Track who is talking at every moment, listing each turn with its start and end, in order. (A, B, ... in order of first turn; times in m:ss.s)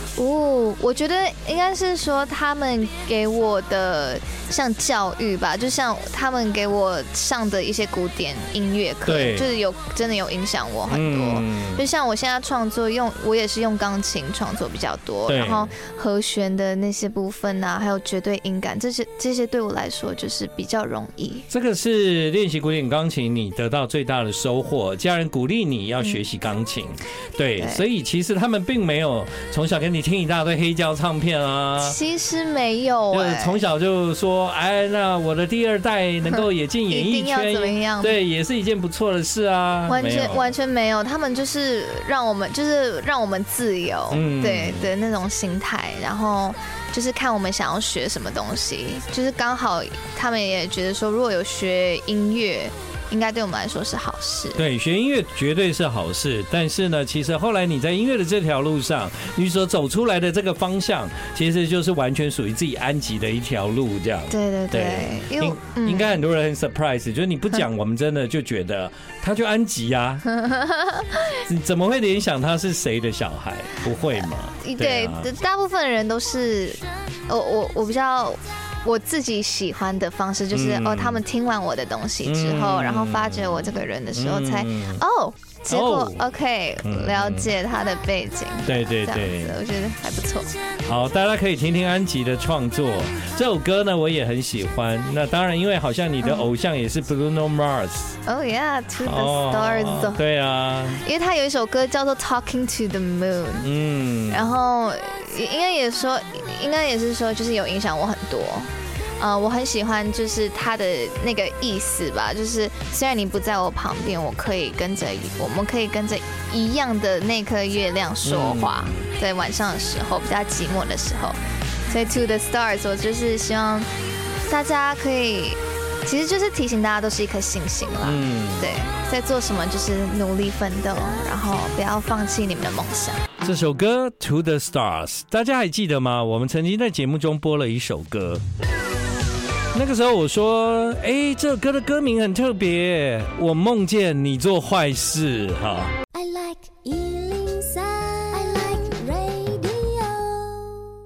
0:00.2-0:21.5 A
0:09.0-0:09.5 B
0:10.9-0:11.9 B
0:15.3-0:15.7 B
0:21.5-0:32.0 B
0:27.6-0:27.8 A
0:31.8-0:33.6 A
0:33.1-0:40.5 B
0:36.3-0:38.2 A
0:39.9-0:54.6 A
0:44.1-0:44.9 B
0:54.5-1:10.4 B
1:04.3-1:06.2 A
1:10.3-1:11.3 A
1:11.3-1:15.3 B
1:14.6-1:30.6 A
1:20.5-1:21.2 B
1:22.2-1:25.0 B
1:25.7-1:27.5 B
1:28.6-1:29.6 B
1:30.8-1:38.1 B
1:36.2-1:36.5 A
1:38.2-1:40.2 A
1:39.0-1:41.0 B
1:40.9-1:43.7 A
1:43.6-1:44.5 B
1:44.3-2:03.9 A
1:58.2-1:59.1 B
2:04.4-2:13.3 A
2:08.0-2:08.8 B
2:13.4-2:18.4 B
2:19.7-2:25.9 B
2:26.1-2:30.9 C